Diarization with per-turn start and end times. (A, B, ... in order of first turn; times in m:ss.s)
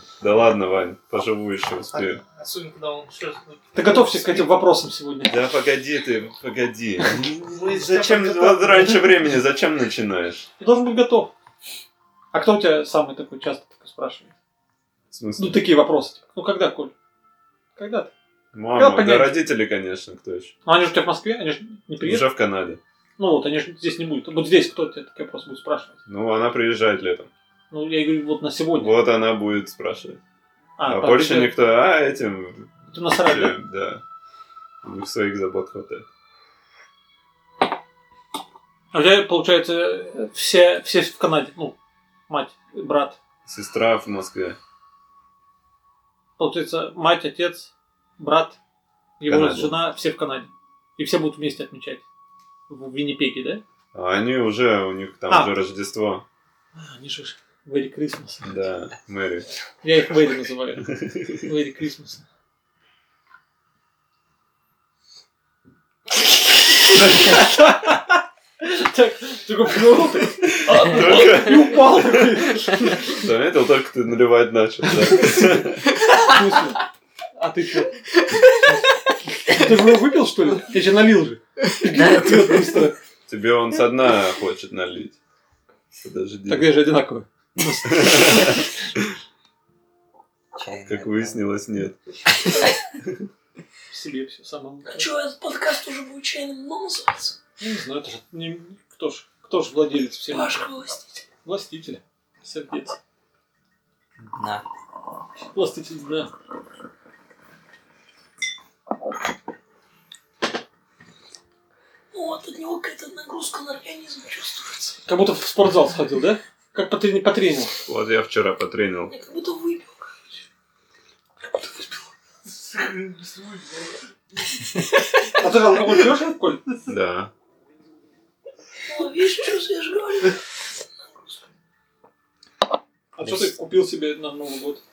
0:00.2-0:02.2 A
0:01.9-0:04.5 B
0:03.7-0:05.4 C
0:05.3-0:10.4 A
0:07.5-0:09.1 B
0:10.6-0:11.3 C
0:12.3-0:14.3 C
0:15.1-0:15.6 A
0:15.4-0:16.9 C
0:17.8-0:18.1 C
0:18.5-0:20.5 A
0:18.8-0:19.4 C
0:20.6-0:22.3 C
0:22.0-0:22.8 A
0:23.2-0:25.9 C
0:26.0-0:27.3 A
0:27.7-0:28.9 C
0:28.7-0:30.2 A
0:30.8-0:31.5 C
0:30.8-0:34.0 A
0:32.9-0:33.6 C
0:34.8-0:36.0 A
0:38.9-0:41.8 C
0:42.3-0:43.2 C
0:43.4-0:44.6 A
0:46.4-0:48.6 C
0:49.2-0:52.0 C
0:49.2-0:49.8 A
0:52.7-0:53.6 C
0:53.9-0:56.2 A
0:56.8-0:58.5 C
0:58.4-0:59.5 A
0:59.8-1:00.9 C
1:00.9-1:01.4 A
1:01.4-1:02.2 C
1:07.0-1:08.0 C
1:08.6-1:13.2 C
1:10.5-1:12.4 A
1:13.0-1:15.9 A
1:16.2-1:16.8 C
1:17.4-1:18.0 C
1:19.4-1:23.0 C
1:22.0-1:22.4 D
1:23.3-1:25.2 A
1:26.0-1:26.8 A
1:26.5-1:28.7 C
1:27.9-1:28.6 A
1:30.5-1:31.4 D
1:30.8-1:32.0 A
1:33.9-1:35.1 C
1:34.9-1:37.4 E
1:37.6-1:40.7 C
1:40.3-1:41.2 E
1:41.4-1:43.0 C
1:44.2-1:44.6 D
1:45.5-1:46.3 C
1:52.1-1:55.0 E
1:55.0-1:57.7 C
1:57.9-1:59.1 A
1:59.1-2:00.2 E
2:01.6-2:01.9 C
2:02.6-2:04.0 B
2:05.3-2:06.6 C
2:06.8-2:07.3 A
2:08.9-2:10.4 E
2:13.2-2:14.8 C
2:13.2-2:13.5 D